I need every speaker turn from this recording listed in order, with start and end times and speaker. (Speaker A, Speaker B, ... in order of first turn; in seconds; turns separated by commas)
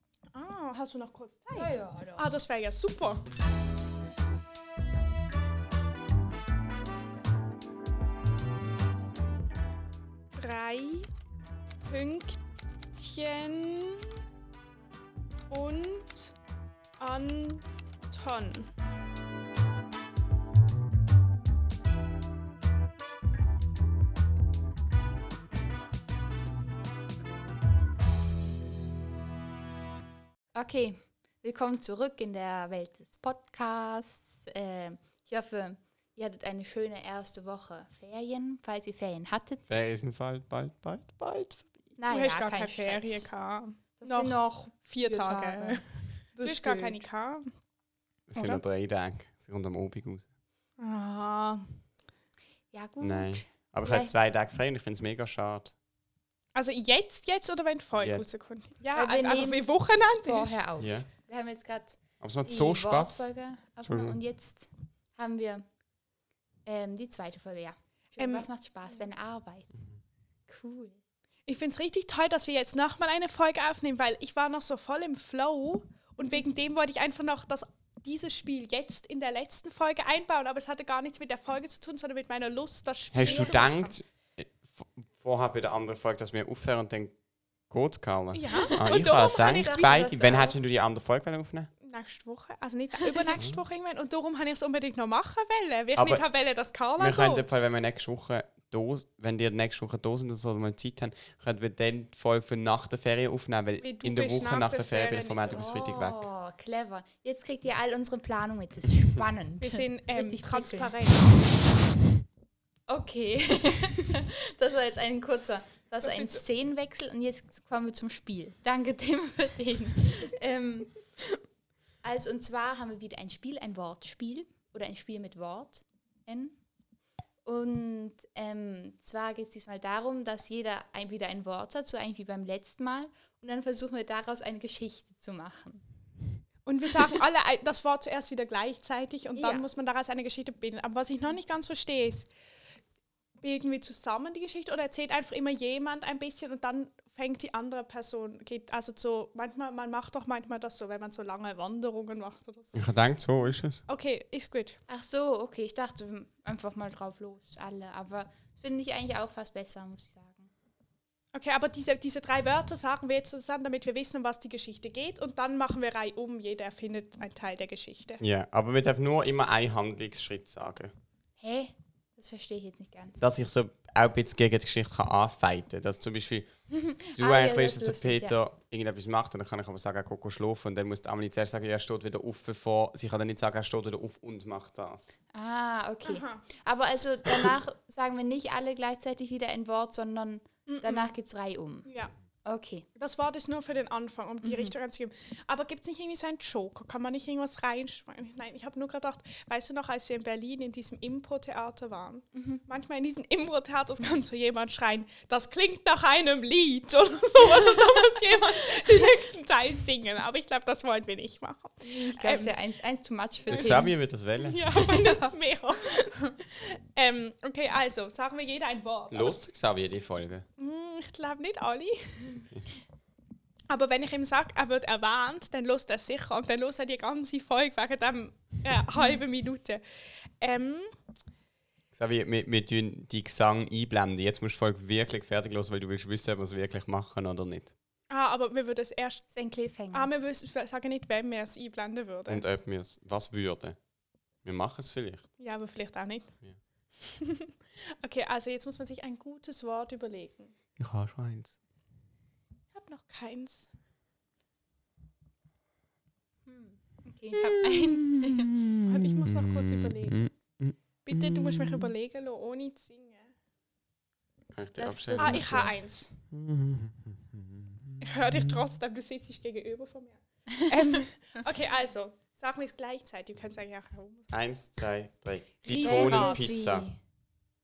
Speaker A: 0.3-3.2, Speaker B: 1.5-2.3, Speaker A: 10.4-11.1, Speaker A: 11.8-12.4, Speaker A: 12.9-14.1, Speaker A: 15.5-16.4, Speaker A: 17.0-18.7, Speaker B: 30.6-39.7, Speaker C: 39.7-41.9, Speaker B: 42.0-43.3, Speaker A: 42.1-47.5, Speaker B: 43.9-47.0, Speaker C: 48.3-50.3, Speaker A: 48.3-48.6, Speaker A: 50.8-51.8, Speaker B: 52.7-54.2, Speaker C: 53.0-55.7, Speaker A: 56.5-60.6, Speaker C: 58.0-58.4, Speaker B: 58.9-65.6, Speaker C: 60.8-61.1, Speaker C: 62.2-63.3, Speaker C: 63.8-64.2, Speaker B: 66.7-69.8, Speaker A: 68.2-69.0, Speaker B: 70.5-71.0, Speaker A: 71.5-83.9, Speaker C: 83.1-87.2, Speaker B: 83.2-83.7, Speaker C: 87.7-91.7, Speaker A: 88.3-90.0, Speaker B: 88.8-90.6, Speaker A: 91.8-97.6, Speaker C: 95.9-96.2, Speaker C: 97.0-106.2, Speaker A: 103.8-105.7, Speaker B: 105.5-111.3, Speaker A: 109.6-111.3, Speaker B: 112.9-121.0, Speaker A: 116.0-116.4, Speaker B: 122.0-126.6, Speaker B: 127.5-135.8, Speaker A: 136.7-142.3, Speaker B: 139.4-139.7, Speaker A: 143.4-152.9, Speaker C: 152.7-153.8, Speaker A: 153.9-154.8, Speaker B: 154.9-160.5, Speaker A: 161.3-168.2, Speaker C: 168.2-170.9, Speaker B: 171.4-173.3, Speaker C: 173.2-176.5, Speaker B: 176.7-178.4, Speaker C: 177.2-185.1, Speaker B: 185.3-191.9, Speaker A: 186.0-186.4, Speaker A: 190.7-191.1, Speaker A: 191.9-192.1, Speaker B: 192.4-192.9, Speaker A: 193.0-212.6, Speaker B: 194.4-194.8, Speaker B: 202.3-202.6, Speaker B: 211.8-214.0, Speaker A: 213.5-213.8, Speaker C: 213.5-214.7, Speaker A: 214.4-219.4, Speaker B: 214.8-215.3, Speaker C: 219.1-220.4, Speaker A: 220.6-222.4, Speaker A: 223.7-229.8, Speaker A: 230.4-230.9, Speaker C: 231.9-237.7, Speaker A: 238.1-239.2, Speaker B: 239.3-240.1, Speaker A: 239.9-242.5, Speaker C: 242.3-243.8, Speaker C: 244.4-245.3, Speaker A: 245.4-246.3, Speaker A: 247.1-250.5, Speaker C: 250.8-251.5, Speaker A: 252.8-253.7, Speaker B: 256.4-258.6, Speaker C: 257.3-261.9, Speaker A: 258.9-260.2, Speaker A: 261.0-263.3, Speaker C: 264.5-265.7, Speaker B: 264.8-265.7, Speaker A: 265.2-266.1, Speaker C: 266.3-268.6, Speaker A: 268.0-274.3, Speaker B: 270.6-271.0, Speaker C: 274.3-276.9, Speaker A: 275.6-276.5, Speaker B: 275.7-277.0